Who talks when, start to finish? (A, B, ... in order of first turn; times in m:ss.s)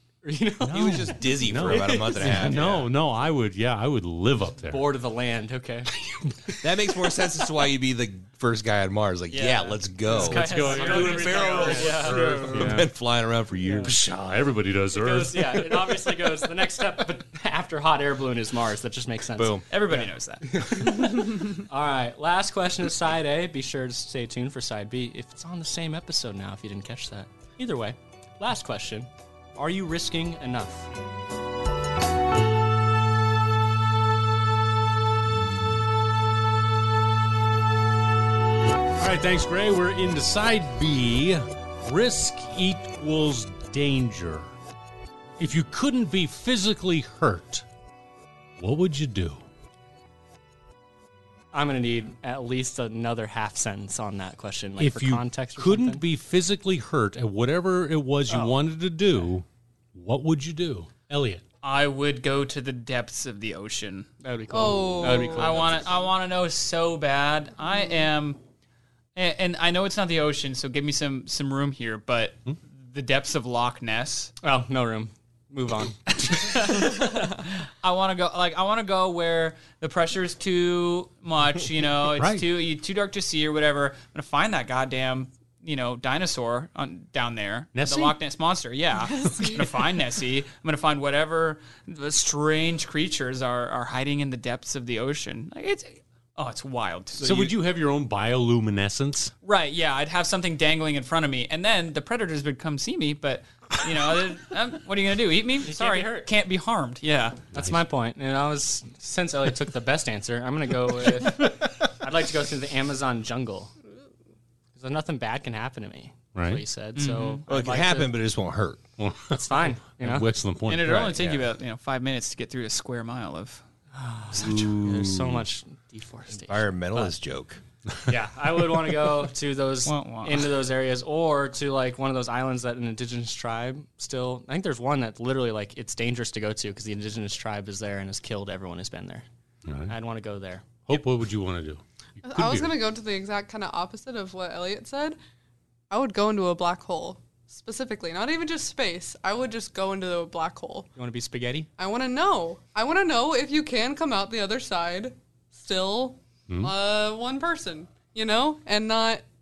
0:00.2-0:02.9 A
0:00.6-0:04.8 B
0:00.7-0:02.8 C
0:04.6-0:05.9 A
0:06.1-0:06.6 B
0:06.6-0:13.9 C
0:09.3-0:12.7 D
0:10.1-0:12.9 B
0:10.6-0:12.5 A
0:13.6-0:13.9 A
0:13.8-0:16.0 B
0:14.9-0:30.9 A
0:19.4-0:19.6 C
0:19.7-0:20.5 D
0:39.0-0:44.5 B
0:45.4-0:47.6 B
0:48.6-0:49.4 B
0:51.5-0:56.0 A
0:54.8-1:01.4 B
1:01.6-1:04.1 D
1:04.2-1:05.9 A
1:04.5-1:05.6 E
1:05.2-1:08.4 D
1:09.1-1:14.3 D
1:14.4-1:16.6 A
1:16.2-1:37.5 D
1:22.1-1:22.5 B
1:27.8-1:28.2 B
1:37.2-1:39.3 B
1:39.4-1:47.4 D
1:45.6-1:46.3 A
1:47.5-1:53.7 A
1:47.5-1:47.8 B
1:54.8-1:58.2 A
1:56.3-1:56.6 B
1:57.0-1:57.4 D
1:57.5-1:58.8 C
1:59.0-2:01.2 B
1:59.3-2:00.3 A
2:00.7-2:03.6 D
2:03.9-2:07.1 A
2:04.4-2:05.1 C
2:04.5-2:05.4 B
2:06.5-2:07.6 C
2:08.1-2:19.2 A
2:09.8-2:10.5 D
2:19.7-2:20.0 B
2:19.9-2:21.0 A
2:20.9-2:22.8 B
2:22.2-2:25.2 E
2:25.9-2:30.9 E
2:31.0-2:31.7 A
2:31.8-2:39.2 E
2:36.5-2:36.7 B